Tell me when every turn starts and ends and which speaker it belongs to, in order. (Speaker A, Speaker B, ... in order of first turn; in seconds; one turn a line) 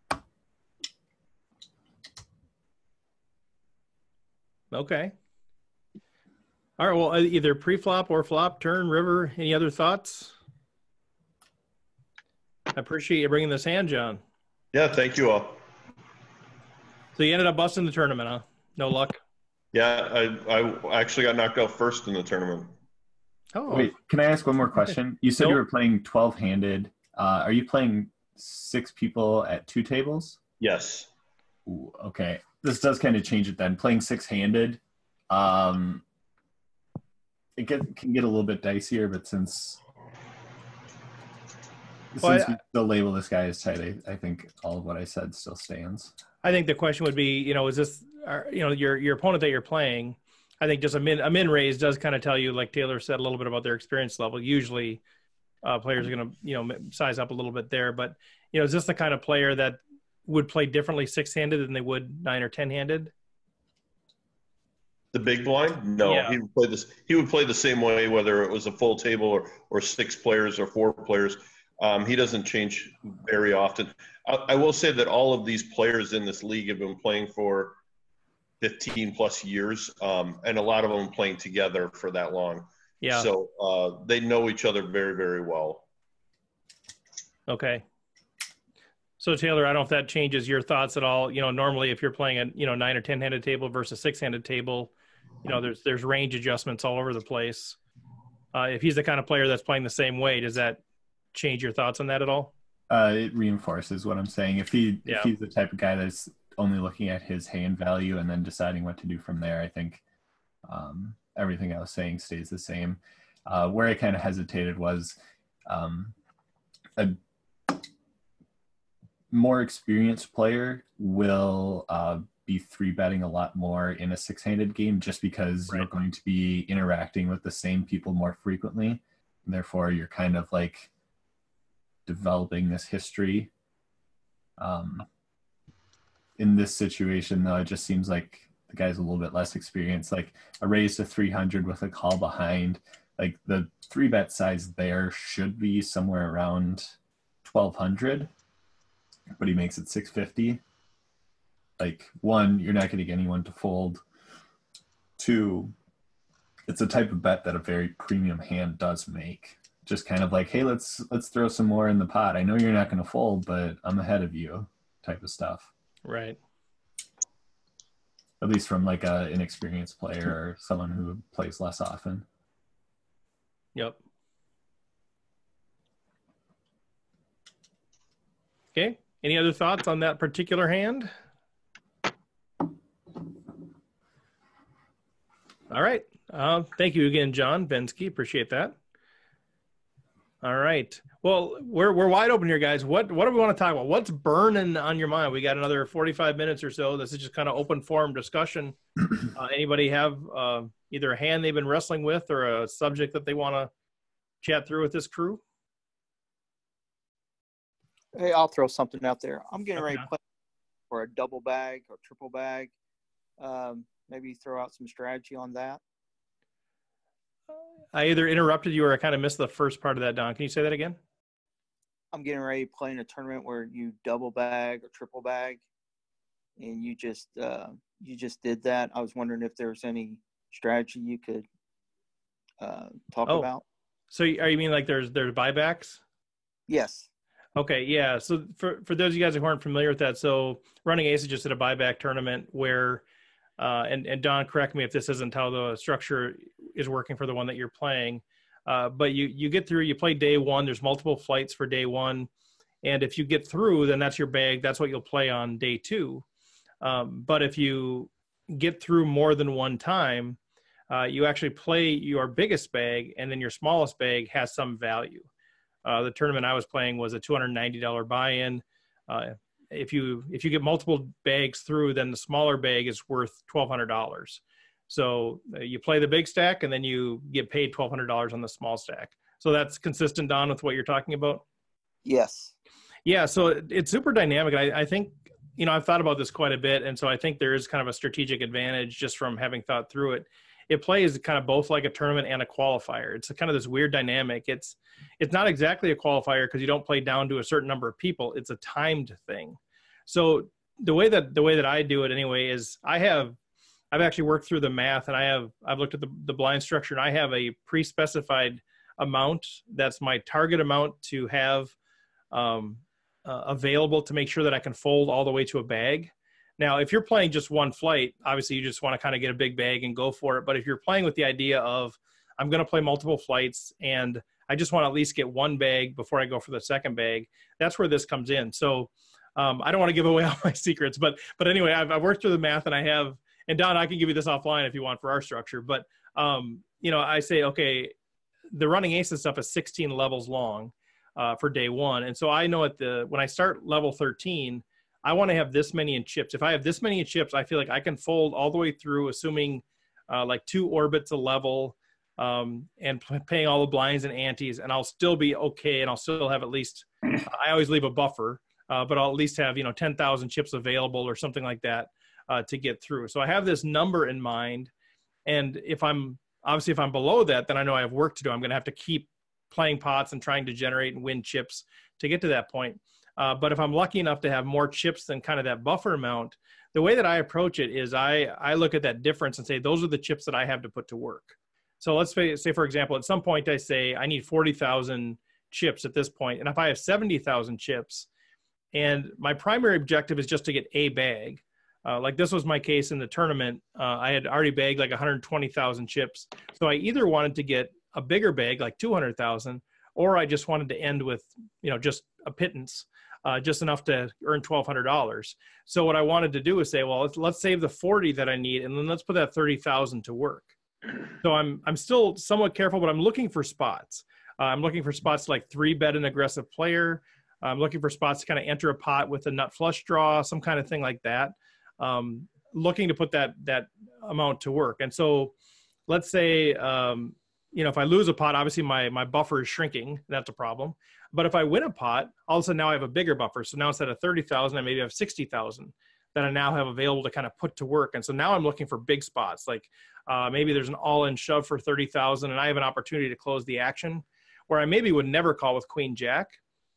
Speaker A: 4.7-5.1
Speaker A: 6.8-10.3
Speaker A: 12.7-14.2
Speaker B: 14.7-15.6
Speaker A: 17.1-19.2
Speaker B: 19.7-22.7
Speaker A: 23.5-23.9
Speaker C: 23.7-30.4
Speaker B: 30.6-31.1
Speaker C: 31.6-36.0
Speaker C: 37.6-39.8
Speaker C: 42.1-46.1
Speaker A: 42.2-42.6
Speaker A: 46.4-55.0
Speaker A: 55.6-63.1
Speaker B: 65.1-77.8
Speaker A: 66.0-66.4
Speaker B: 78.6-85.8
Speaker A: 83.0-83.3
Speaker A: 87.5-87.8
Speaker A: 89.2-94.9
Speaker A: 95.4-97.8
Speaker A: 98.5-100.8
Speaker A: 101.3-102.5
Speaker C: 102.9-110.0
Speaker A: 105.0-105.3
Speaker C: 110.7-116.1
Speaker C: 119.3-130.9
Speaker C: 132.1-133.5
Speaker C: 134.6-135.1
Speaker C: 136.4-148.3
Speaker C: 149.4-150.6
Speaker C: 151.8-154.0
Speaker C: 155.2-155.7
Speaker C: 156.7-165.7
Speaker A: 166.0-166.4
Speaker C: 168.4-172.2
Speaker A: 178.7-181.1
Speaker A: 185.7-188.7
Speaker A: 190.4-198.8
Speaker A: 199.3-203.7
Speaker A: 204.4-205.4
Speaker D: 208.1-210.2
Speaker A: 209.8-210.1
Speaker D: 210.9-212.7
Speaker D: 213.4-215.8
Speaker A: 217.9-221.0
Speaker D: 222.1-225.6
Speaker D: 226.6-231.4
Speaker D: 232.6-233.6
Speaker A: 234.1-236.0
Speaker D: 236.7-237.1
Speaker A: 237.6-243.0
Speaker A: 243.6-252.3
Speaker A: 252.8-256.2
Speaker A: 256.8-260.4
Speaker A: 260.9-265.3
Speaker A: 265.8-281.4
Speaker D: 282.0-282.5
Speaker A: 283.1-303.4
Speaker A: 303.9-311.7
Speaker A: 312.3-337.9
Speaker A: 338.5-364.7
Speaker A: 365.2-388.1
Speaker A: 388.7-410.5
Speaker A: 411.2-425.3
Speaker A: 425.9-446.4